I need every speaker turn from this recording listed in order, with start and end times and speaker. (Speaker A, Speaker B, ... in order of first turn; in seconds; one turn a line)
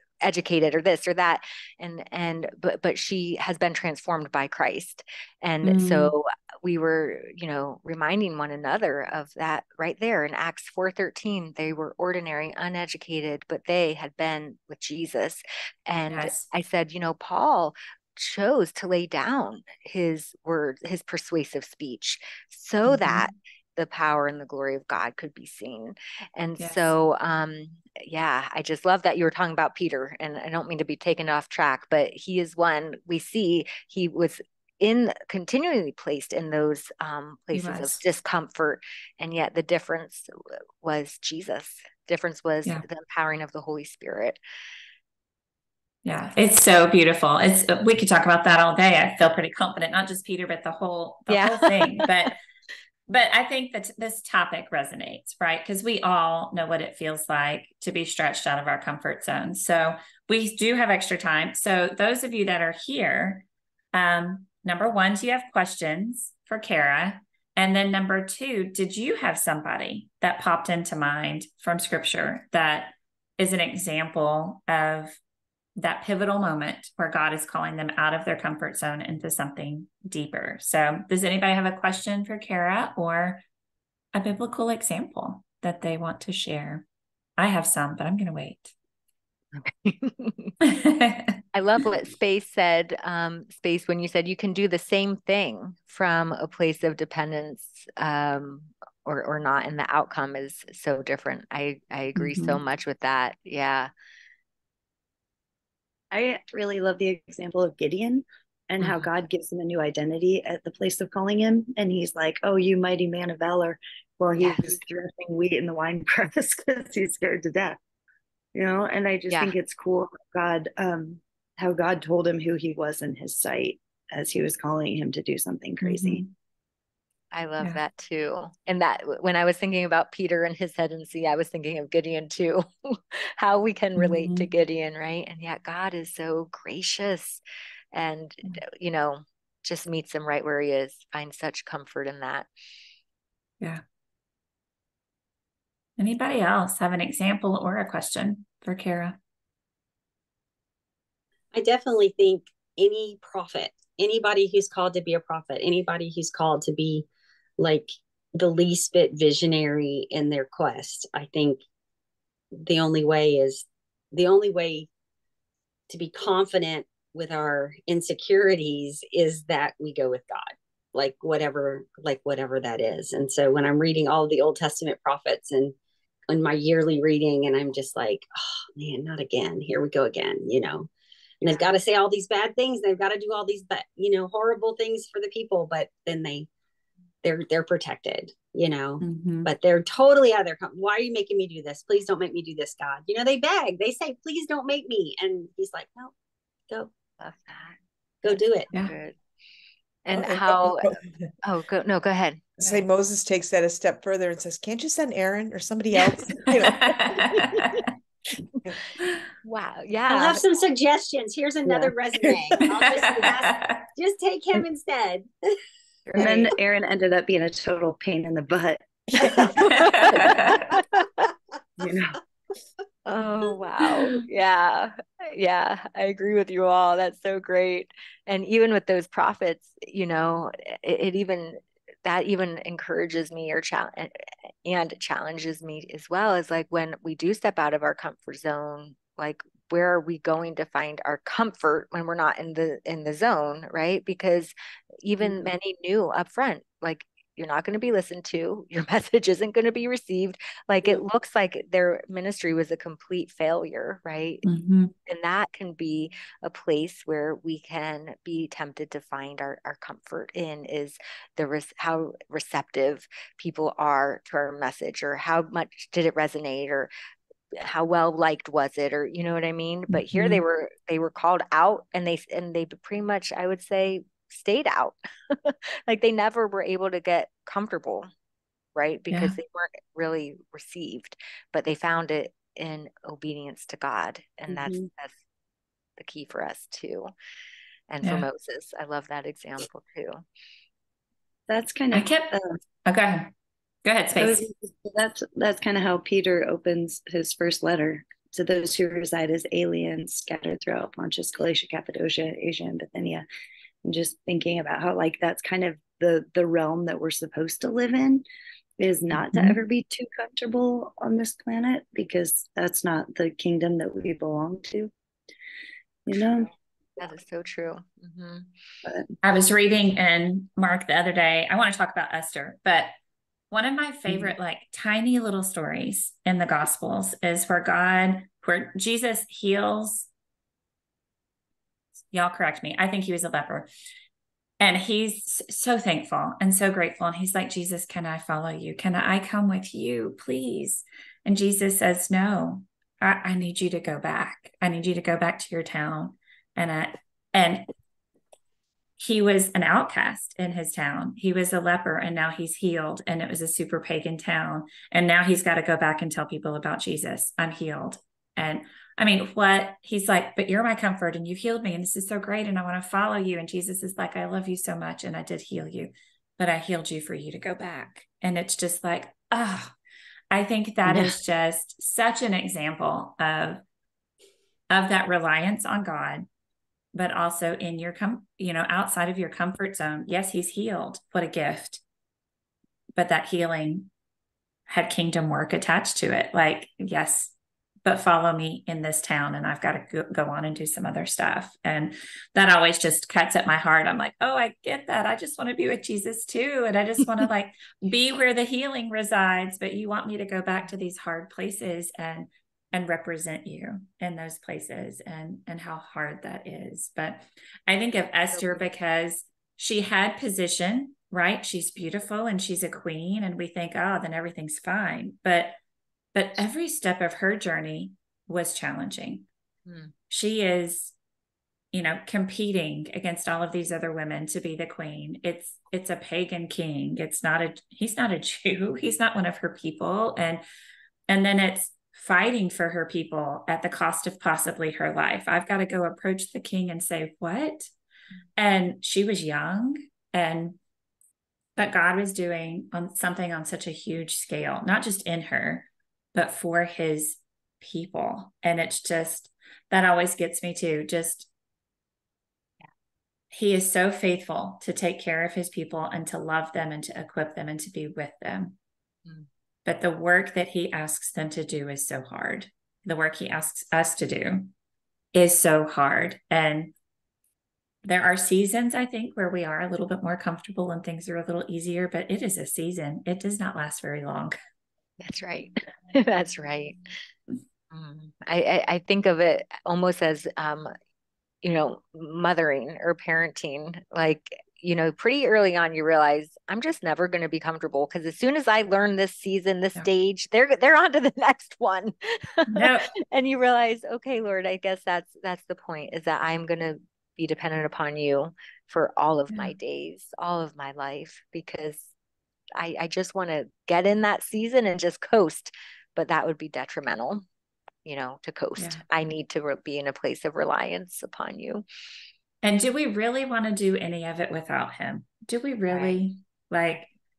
Speaker A: 0.2-40.3
Speaker B: 5.6-6.1
Speaker B: 16.1-16.4
Speaker B: 22.9-23.3
Speaker B: 26.6-26.9
Speaker B: 37.5-38.0
Speaker A: 40.8-44.4
Speaker B: 46.0-52.4
Speaker A: 51.3-52.0
Speaker B: 53.1-75.2
Speaker B: 75.8-83.4
Speaker B: 84.1-86.8
Speaker B: 87.4-88.7
Speaker A: 89.5-90.6
Speaker B: 90.6-91.4
Speaker A: 91.5-103.9
Speaker B: 102.2-102.6
Speaker C: 106.1-117.8
Speaker A: 114.4-114.8
Speaker C: 118.5-126.2
Speaker B: 125.8-126.3
Speaker A: 127.3-137.4
Speaker B: 133.9-134.5
Speaker A: 137.9-142.5
Speaker B: 146.0-149.2
Speaker D: 151.5-157.1
Speaker D: 157.6-161.6
Speaker D: 162.6-164.9
Speaker D: 165.9-175.7
Speaker D: 176.3-180.9
Speaker D: 181.4-186.5
Speaker D: 187.2-196.1
Speaker B: 189.0-189.5
Speaker A: 197.2-199.2
Speaker D: 198.2-198.7
Speaker A: 200.1-202.5
Speaker E: 200.1-201.1
Speaker E: 202.6-207.7
Speaker B: 206.6-207.9
Speaker A: 209.4-210.4
Speaker D: 210.1-215.3
Speaker B: 213.2-213.8
Speaker C: 216.2-219.4
Speaker A: 219.5-220.8
Speaker B: 219.6-220.7
Speaker C: 221.8-222.1
Speaker A: 223.1-254.4
Speaker B: 254.4-254.9
Speaker A: 255.1-266.9
Speaker A: 267.6-278.1
Speaker B: 269.9-270.4
Speaker A: 278.8-285.2
Speaker B: 279.1-279.3
Speaker A: 286.0-287.1
Speaker A: 287.9-290.2
Speaker C: 291.5-292.5
Speaker B: 291.9-292.3
Speaker B: 292.8-293.3
Speaker B: 293.8-294.5
Speaker C: 294.2-303.2
Speaker C: 303.8-308.2
Speaker C: 308.8-314.9
Speaker B: 309.1-309.6
Speaker C: 316.1-316.5
Speaker A: 317.0-318.5
Speaker C: 318.8-319.1
Speaker B: 319.2-322.9
Speaker B: 323.5-330.1
Speaker B: 332.1-333.7
Speaker B: 334.6-347.7
Speaker B: 349.0-369.7
Speaker B: 370.3-373.6
Speaker C: 370.9-371.2
Speaker B: 374.7-376.3
Speaker B: 376.9-381.8
Speaker B: 382.9-383.9
Speaker B: 384.7-387.3
Speaker B: 387.8-415.6
Speaker B: 416.1-419.3
Speaker A: 419.7-419.9
Speaker B: 420.1-420.9
Speaker B: 421.7-430.4
Speaker B: 431.1-437.7
Speaker B: 438.4-440.6
Speaker B: 441.6-451.3
Speaker B: 453.3-458.6
Speaker B: 459.6-464.5
Speaker B: 465.1-466.7
Speaker B: 467.8-474.3
Speaker A: 475.0-476.8
Speaker A: 477.7-480.7
Speaker A: 481.4-501.9
Speaker B: 492.5-492.9
Speaker A: 502.6-507.2
Speaker A: 507.8-511.6
Speaker B: 508.6-508.8
Speaker B: 512.4-516.9
Speaker A: 515.7-516.0